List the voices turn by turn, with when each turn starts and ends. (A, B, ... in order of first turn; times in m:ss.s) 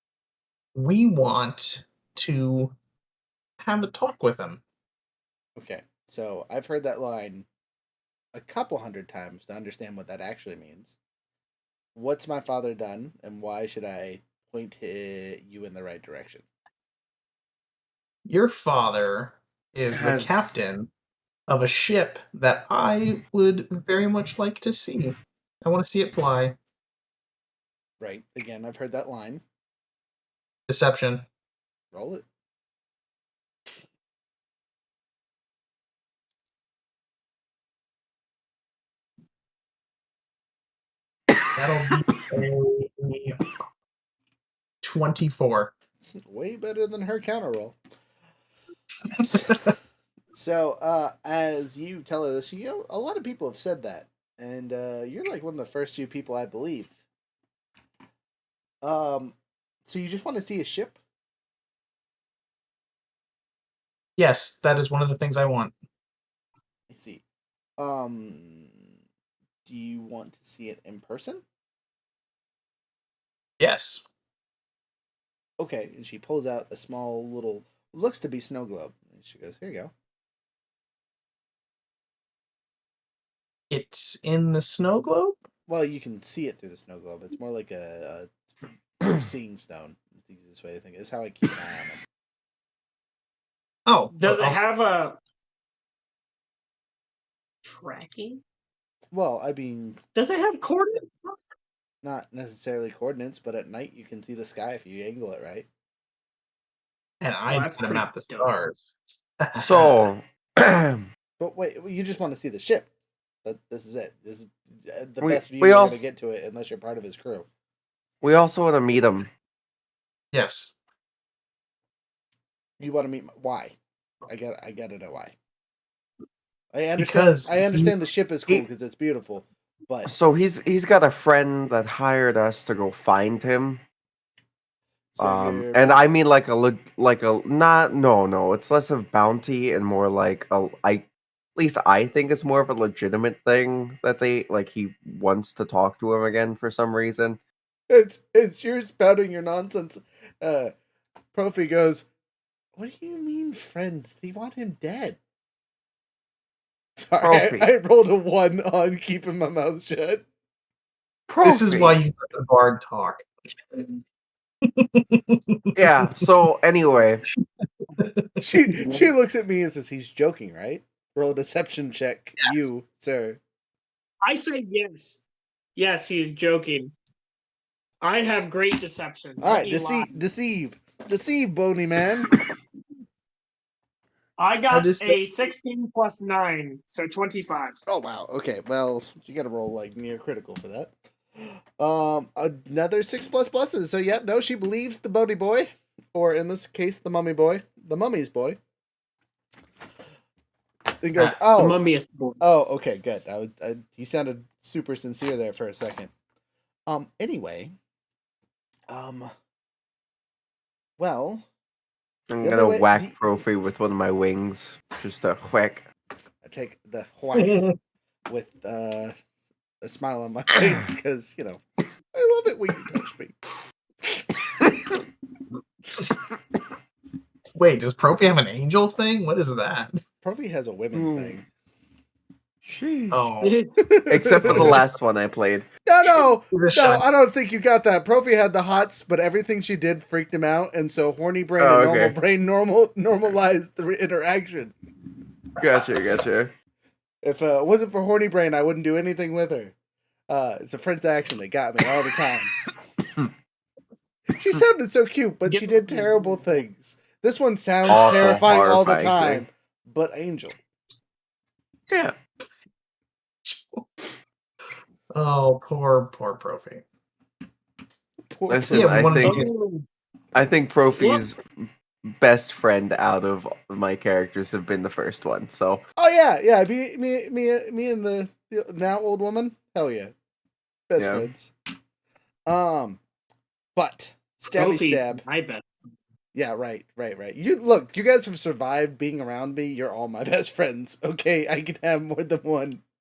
0:00.7-0:02.7 A
0:03.6-0:04.6 A
0:05.6-0:07.4 B
0:08.3-0:11.0 B
0:11.9-0:16.4 B
0:18.2-0:20.9 A
0:19.9-0:20.5 C
0:21.5-0:26.6 A
0:28.0-0:29.4 B
0:30.7-0:31.2 A
0:31.9-0:32.2 B
0:41.5-0:43.4 A
0:44.8-0:45.7 A
0:46.2-0:47.8 B
0:49.2-0:49.7 B
0:50.3-0:56.9 B
0:58.8-0:59.4 B
0:59.9-1:01.0 B
1:04.2-1:05.7 A
1:06.9-1:07.2 B
1:07.8-1:08.9 B
1:09.6-1:11.4 B
1:13.6-1:14.0 A
1:15.6-1:19.9 B
1:23.7-1:25.4 A
1:25.7-1:28.3 B
1:29.0-1:32.0 B
1:33.9-1:34.6 A
1:34.1-1:35.2 D
1:37.6-1:38.4 D
1:39.1-1:40.0 B
1:40.1-1:41.4 D
1:42.0-1:45.7 B
1:47.2-1:50.1 A
1:47.5-1:48.5 D
1:49.5-1:51.1 C
1:51.4-1:52.9 B
1:53.4-1:57.4 B
1:55.2-1:56.0 C
1:58.2-1:59.3 C
2:00.3-2:00.7 A
2:02.8-2:03.7 B
2:04.3-2:05.3 B
2:06.7-2:10.1 B
2:07.0-2:08.0 A
2:10.0-2:13.8 C
2:15.2-2:16.1 B
2:15.2-2:27.4 C
2:27.9-2:30.7 B
2:31.3-2:32.1 B
2:32.8-2:35.2 B
2:37.0-2:40.2 B
2:37.2-2:37.7 C
2:41.3-2:42.0 C
2:41.4-2:44.0 A
2:44.7-2:46.0 A
2:45.7-2:47.2 C
2:48.0-2:49.0 A
2:48.4-2:53.4 B
2:54.2-2:55.2 D
2:55.8-2:56.9 D
2:58.0-3:00.1 D
2:59.4-3:02.3 B
3:04.4-3:07.8 D
3:04.7-3:05.2 A
3:07.9-3:10.9 B
3:11.4-3:18.6 B
3:21.0-3:21.8 B
3:21.6-3:22.4 D
3:22.4-3:26.1 B
3:26.9-3:27.7 B
3:28.9-3:29.3 B
3:31.0-3:31.4 B
3:32.3-3:35.8 C
3:32.4-3:33.2 B
3:36.4-3:37.7 B
3:37.4-3:37.7 A
3:38.3-3:39.1 B
3:39.8-3:41.6 B
3:42.1-3:43.4 B
3:44.1-3:45.0 B
3:47.5-3:50.0 A
3:50.2-3:51.4 B
3:50.9-3:51.4 C
3:52.6-3:53.2 C
3:53.1-3:53.6 A
3:53.4-3:53.9 D
3:53.8-3:54.8 B
3:54.1-3:55.7 C
3:54.4-3:54.8 A
3:55.8-4:04.7 B
3:56.5-3:57.0 A
4:01.6-4:02.2 C
4:05.6-4:06.5 C
4:07.2-4:09.7 B
4:10.3-4:12.5 B
4:14.3-4:20.5 B
4:15.5-4:16.6 D
4:17.9-4:19.4 C
4:21.9-4:22.1 C
4:23.4-4:23.9 A
4:25.1-4:26.8 A
4:28.2-4:29.5 B
4:28.5-4:29.5 C
4:28.7-4:29.8 A
4:30.3-4:35.8 C
4:31.0-4:31.2 D
4:36.0-4:40.1 B
4:40.9-4:41.5 B
4:41.0-4:41.3 C
4:42.5-4:43.0 B
4:43.8-4:45.2 B
4:44.5-4:45.6 D
4:46.3-4:52.8 B